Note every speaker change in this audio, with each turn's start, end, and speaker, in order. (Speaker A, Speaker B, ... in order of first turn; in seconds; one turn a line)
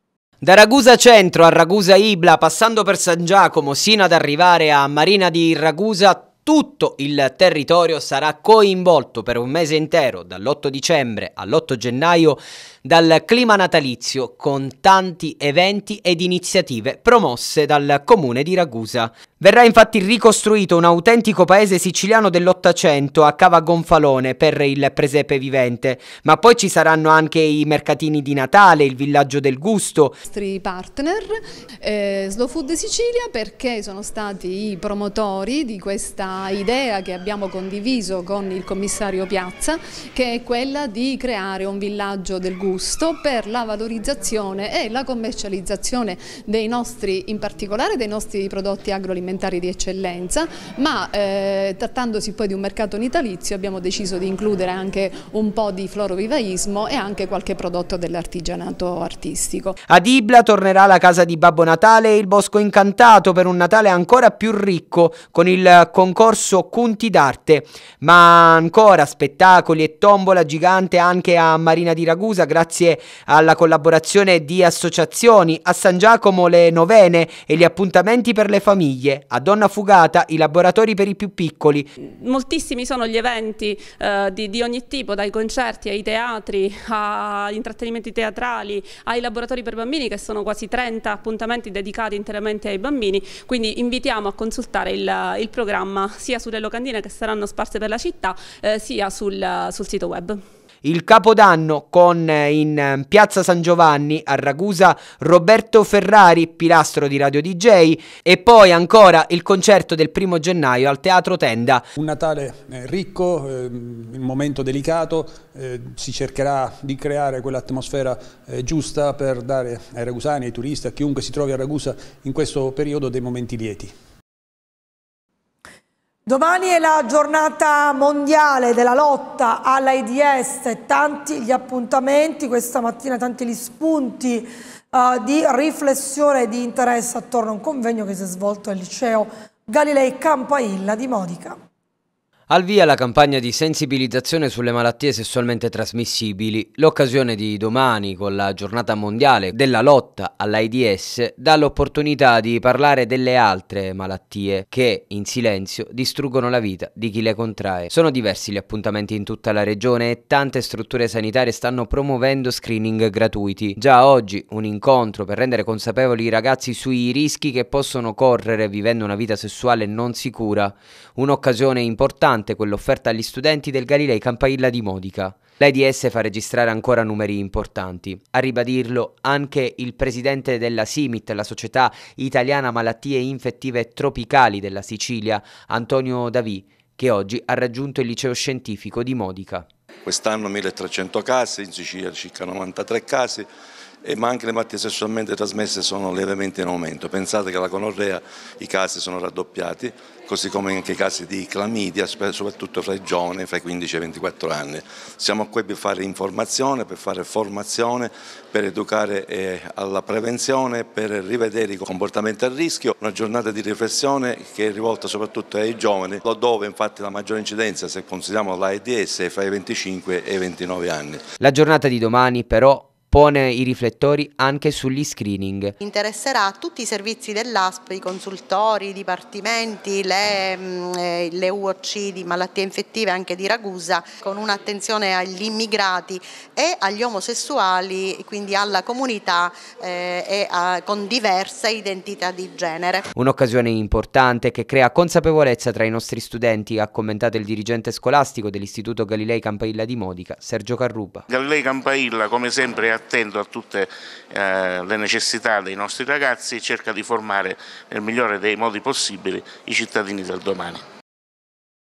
Speaker A: 0.4-30.2
Speaker B: 30.2-59.8
Speaker A: 59.9-81.9
Speaker C: 82.0-100.4
Speaker A: 100.8-111.8
Speaker D: 112.0-123.9
Speaker E: 126.2-141.6
Speaker A: 142.5-189.7
Speaker F: 190.1-193.5
Speaker F: 194.0-221.2
Speaker A: 221.4-225.7
Speaker G: 225.8-243.0
Speaker A: 243.2-251.2
Speaker H: 251.3-260.8